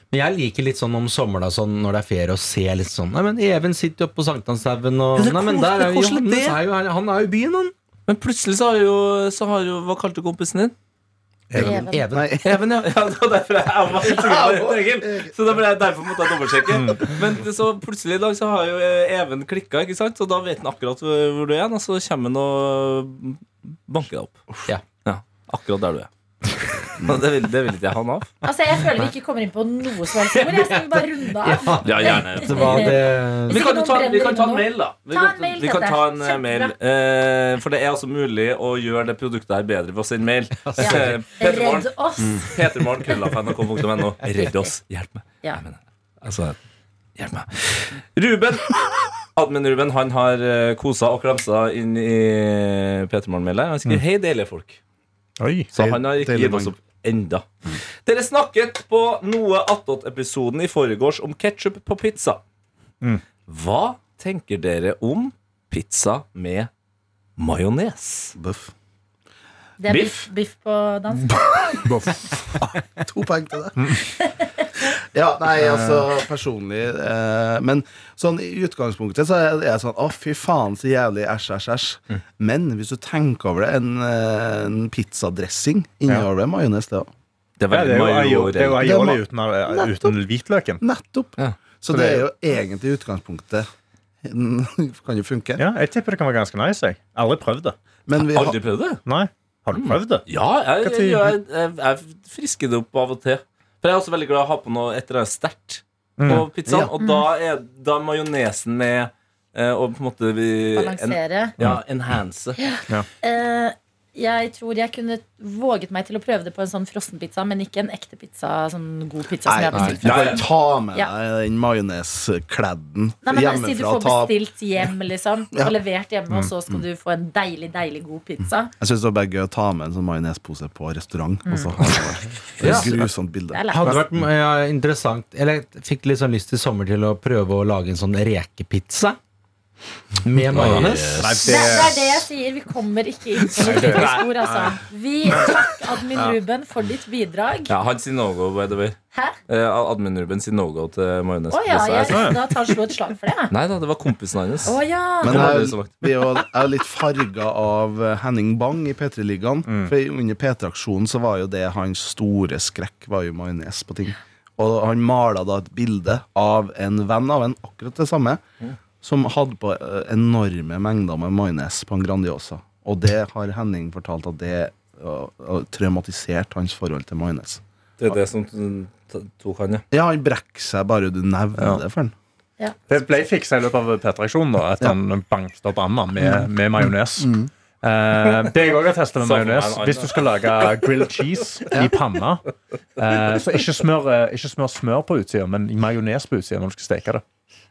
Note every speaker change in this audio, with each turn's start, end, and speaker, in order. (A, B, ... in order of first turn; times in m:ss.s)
0:00.1-0:07.7 A
0:05.2-0:06.6 B
0:08.1-0:10.7 B
0:11.5-0:11.8 C
0:11.5-0:12.4 A
0:11.6-0:12.0 D
0:12.1-0:12.5 E
0:12.4-0:24.4 B
0:14.0-0:15.3 E
0:16.7-0:17.2 C
0:25.0-0:26.1 B
0:27.0-0:28.3 B
0:28.4-0:36.8 D
0:31.4-0:33.6 A
0:31.8-0:46.6 B
0:40.6-0:41.2 A
0:40.8-0:42.5 D
0:44.2-0:44.5 A
0:44.4-0:44.7 D
0:47.2-0:54.8 B
0:55.4-0:55.7 C
0:55.7-0:57.4 B
0:55.8-0:56.7 E
0:58.0-1:02.4 B
1:03.5-1:06.7 B
1:07.4-1:08.4 B
1:08.4-1:08.7 E
1:09.8-1:11.9 D
1:09.9-1:10.3 B
1:11.8-1:12.8 C
1:13.0-1:14.1 E
1:13.8-1:14.0 C
1:14.2-1:14.8 D
1:14.9-1:27.1 E
1:27.6-1:28.8 B
1:27.7-1:30.8 C
1:28.8-1:30.2 E
1:30.8-1:33.7 E
1:31.9-1:32.2 C
1:34.2-1:35.7 E
1:35.6-1:37.8 C
1:38.1-1:38.6 E
1:38.3-1:39.0 B
1:39.0-1:40.2 C
1:39.8-1:52.6 B
1:40.8-1:41.4 C
1:46.2-1:46.5 C
1:46.3-1:46.9 E
1:47.0-1:47.2 D
1:50.8-1:51.6 D
1:52.6-2:01.1 D
1:59.4-2:04.3 E
2:00.0-2:00.4 B
2:03.2-2:08.7 D
2:08.7-2:13.9 E
2:11.4-2:11.8 D
2:12.6-2:13.0 C
2:13.5-2:14.0 D
2:13.7-2:19.2 A
2:20.2-2:21.2 A
2:20.5-2:21.5 B
2:21.2-2:22.2 C
2:21.4-2:27.8 D
2:23.5-2:24.8 C
2:25.3-2:25.6 C
2:27.7-2:32.4 B
2:31.5-2:33.5 D
2:32.1-2:32.5 C
2:33.5-2:35.9 B
2:34.6-2:35.6 D
2:35.2-2:48.4 E
2:39.6-2:39.9 C
2:49.0-2:57.6 E
2:58.0-2:59.9 B
2:59.9-3:02.1 E
3:01.6-3:01.8 C
3:02.9-3:12.4 C
3:06.2-3:07.5 E
3:09.2-3:10.8 B
3:13.0-3:17.2 C